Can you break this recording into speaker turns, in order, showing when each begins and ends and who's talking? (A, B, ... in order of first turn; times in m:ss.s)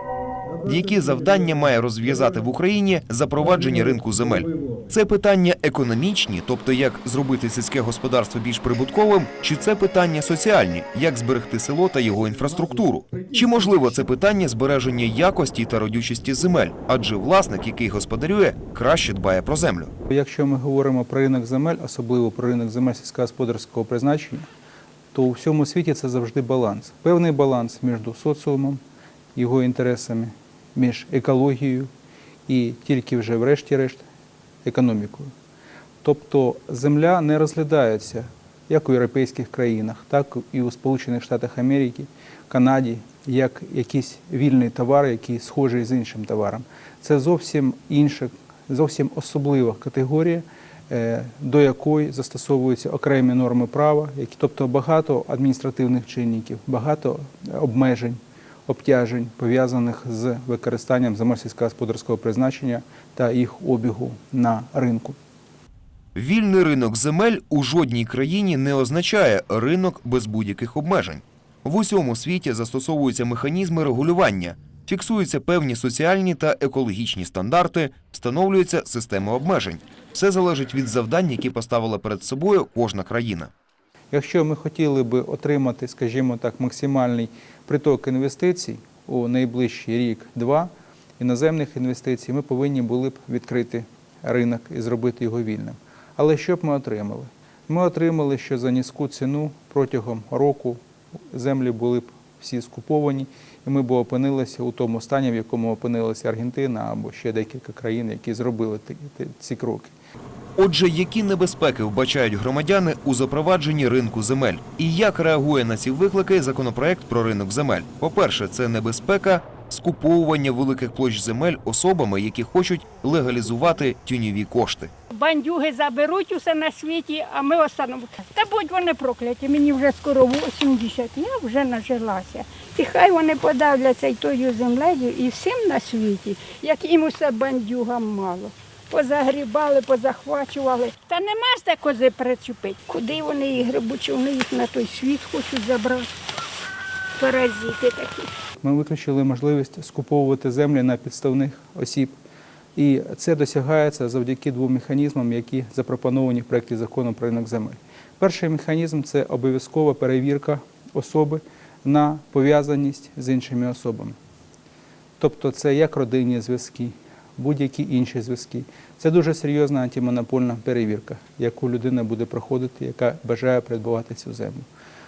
0:00.6-0:19.9 A
0:20.1-0:24.5 B
0:25.1-0:28.8 B
0:29.4-0:31.9 B
0:32.5-0:34.0 B
0:34.6-0:35.3 B
0:36.0-1:05.2 B
1:06.2-1:23.5 A
1:24.1-1:40.8 B
1:41.3-1:49.9 B
1:50.6-2:04.9 A
2:05.1-2:26.1 C
2:27.2-2:28.3 C
2:28.6-2:32.2 B
2:32.8-2:44.2 B
2:45.2-2:54.7 B